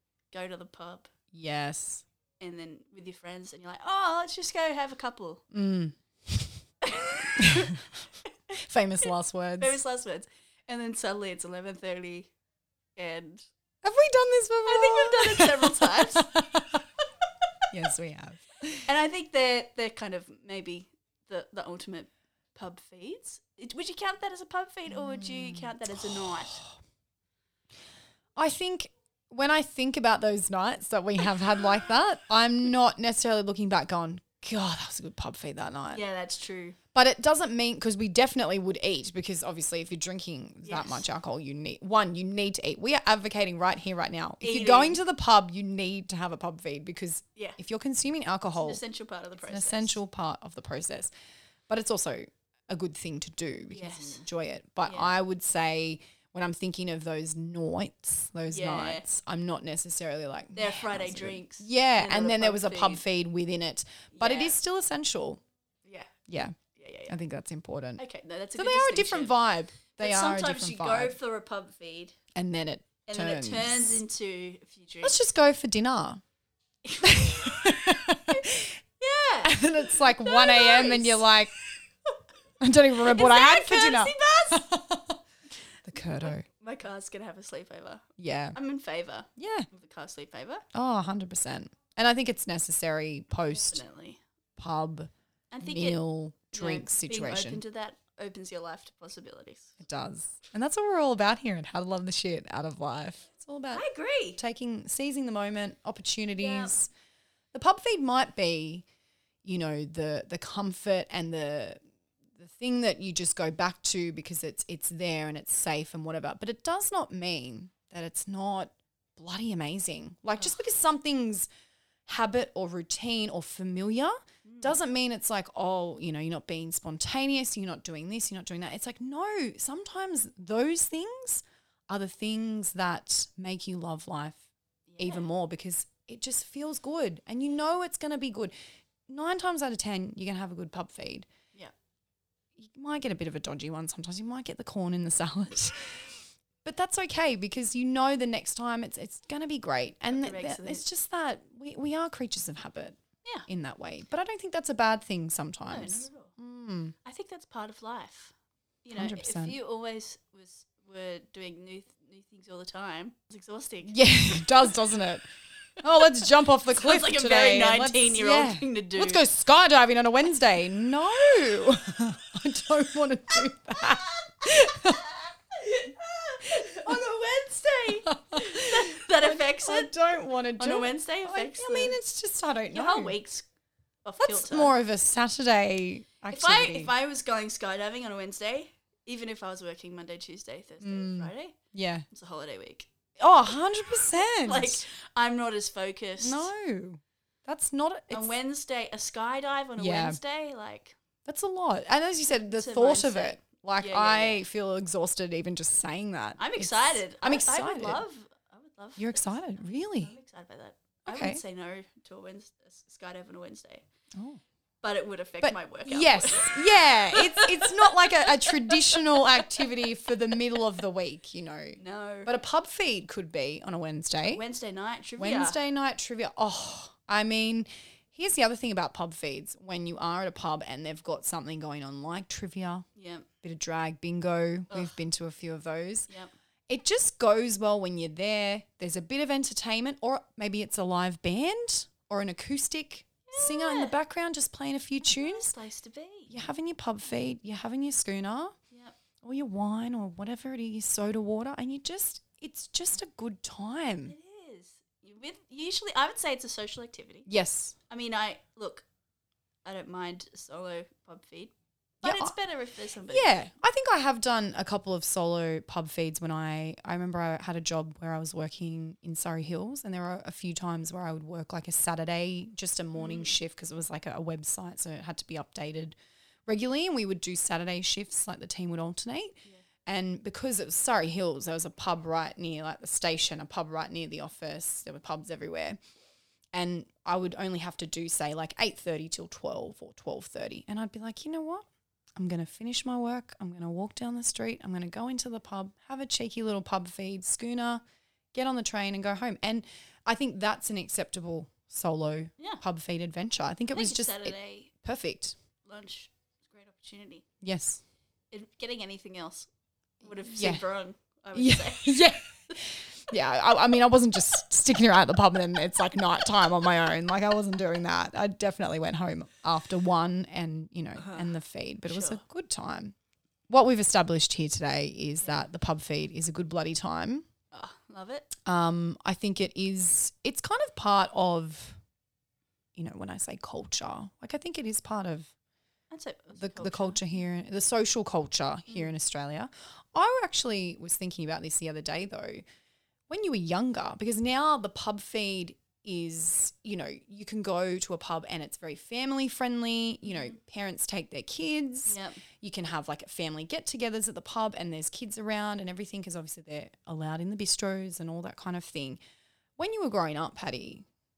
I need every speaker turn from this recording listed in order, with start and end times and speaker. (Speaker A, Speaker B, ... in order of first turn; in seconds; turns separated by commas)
Speaker A: 0.3-1.1, Speaker B: 1.3-2.0, Speaker A: 2.4-5.4, Speaker B: 5.5-6.6, Speaker A: 6.8-8.3, Speaker B: 7.4-7.8, Speaker B: 8.6-9.8, Speaker A: 9.0-12.3, Speaker A: 12.9-13.4, Speaker B: 13.8-16.8, Speaker A: 14.7-16.4, Speaker B: 17.7-18.9, Speaker A: 18.9-26.6, Speaker B: 24.9-26.7, Speaker B: 28.4-36.0, Speaker A: 35.9-36.8, Speaker B: 36.9-48.8, Speaker A: 40.6-41.0, Speaker A: 44.4-45.0, Speaker A: 48.6-50.0, Speaker B: 49.4-51.1, Speaker B: 51.7-65.4, Speaker A: 53.7-54.2, Speaker A: 54.8-55.2, Speaker A: 58.5-59.0, Speaker A: 60.5-63.0, Speaker A: 64.1-64.5, Speaker A: 65.8-66.2, Speaker B: 66.3-68.0, Speaker A: 66.7-67.1, Speaker A: 68.0-69.4, Speaker B: 68.5-71.2, Speaker A: 70.0-72.2, Speaker B: 72.3-74.0, Speaker A: 73.1-75.2, Speaker B: 75.0-76.2, Speaker A: 76.8-78.4, Speaker B: 77.0-78.8, Speaker A: 79.0-82.2, Speaker B: 79.4-81.5, Speaker B: 82.6-85.2, Speaker A: 83.0-84.7, Speaker B: 85.8-86.4, Speaker A: 86.2-90.6, Speaker B: 88.2-88.6, Speaker B: 89.4-89.7, Speaker B: 90.7-93.8, Speaker A: 93.5-94.2, Speaker B: 94.6-97.6, Speaker A: 95.5-99.8, Speaker B: 99.8-103.8, Speaker A: 103.7-104.4, Speaker B: 104.3-106.9, Speaker A: 106.4-106.7, Speaker B: 107.5-108.8, Speaker B: 109.4-111.8, Speaker B: 112.3-121.5, Speaker B: 122.0-134.4, Speaker A: 124.4-124.8, Speaker A: 134.9-135.2, Speaker B: 135.0-138.5, Speaker B: 139.1-141.3, Speaker B: 142.6-156.9, Speaker A: 150.1-150.8, Speaker A: 155.7-156.3, Speaker A: 157.0-164.8, Speaker B: 158.9-159.6, Speaker B: 163.8-165.3, Speaker B: 165.8-175.2, Speaker A: 166.7-169.2, Speaker A: 174.7-179.9, Speaker B: 176.6-177.0, Speaker B: 178.1-183.2, Speaker A: 180.6-182.0, Speaker A: 182.7-183.5, Speaker A: 184.0-184.7, Speaker B: 184.2-186.9, Speaker A: 186.3-191.6, Speaker B: 190.8-192.0, Speaker A: 192.1-192.9, Speaker B: 193.2-194.8, Speaker A: 194.4-196.5, Speaker B: 196.2-198.3, Speaker A: 198.1-200.9, Speaker B: 199.8-200.2, Speaker B: 201.2-208.0, Speaker A: 202.5-204.4, Speaker A: 206.4-213.8, Speaker B: 209.0-210.1, Speaker B: 211.1-211.4, Speaker B: 214.2-214.4, Speaker A: 214.8-219.8, Speaker B: 215.4-224.4, Speaker A: 221.8-222.3, Speaker A: 224.3-225.6, Speaker B: 225.2-232.9, Speaker A: 232.9-233.3, Speaker B: 233.4-236.1, Speaker A: 234.7-235.0, Speaker B: 236.7-245.5, Speaker A: 243.3-243.9, Speaker A: 245.0-246.4, Speaker B: 246.3-248.6, Speaker A: 248.7-248.9, Speaker B: 249.2-254.1, Speaker A: 254.1-257.3, Speaker B: 257.2-257.8, Speaker A: 257.9-258.9, Speaker A: 259.6-263.3, Speaker B: 262.0-262.3, Speaker B: 263.1-285.8, Speaker A: 272.9-273.3, Speaker B: 286.5-291.6, Speaker B: 292.2-297.8, Speaker B: 298.3-305.4, Speaker A: 303.7-304.7, Speaker A: 305.6-307.2, Speaker B: 307.4-307.8, Speaker A: 308.3-309.5, Speaker A: 310.0-312.6, Speaker B: 310.2-310.6, Speaker B: 311.3-322.9, Speaker A: 320.9-321.3, Speaker A: 321.9-322.2, Speaker B: 323.5-327.3, Speaker A: 327.5-328.3, Speaker B: 328.4-331.8, Speaker B: 332.8-335.3, Speaker A: 335.9-337.0, Speaker B: 336.4-342.4, Speaker B: 343.1-359.0, Speaker A: 350.0-350.4, Speaker A: 351.9-352.2, Speaker B: 359.6-360.9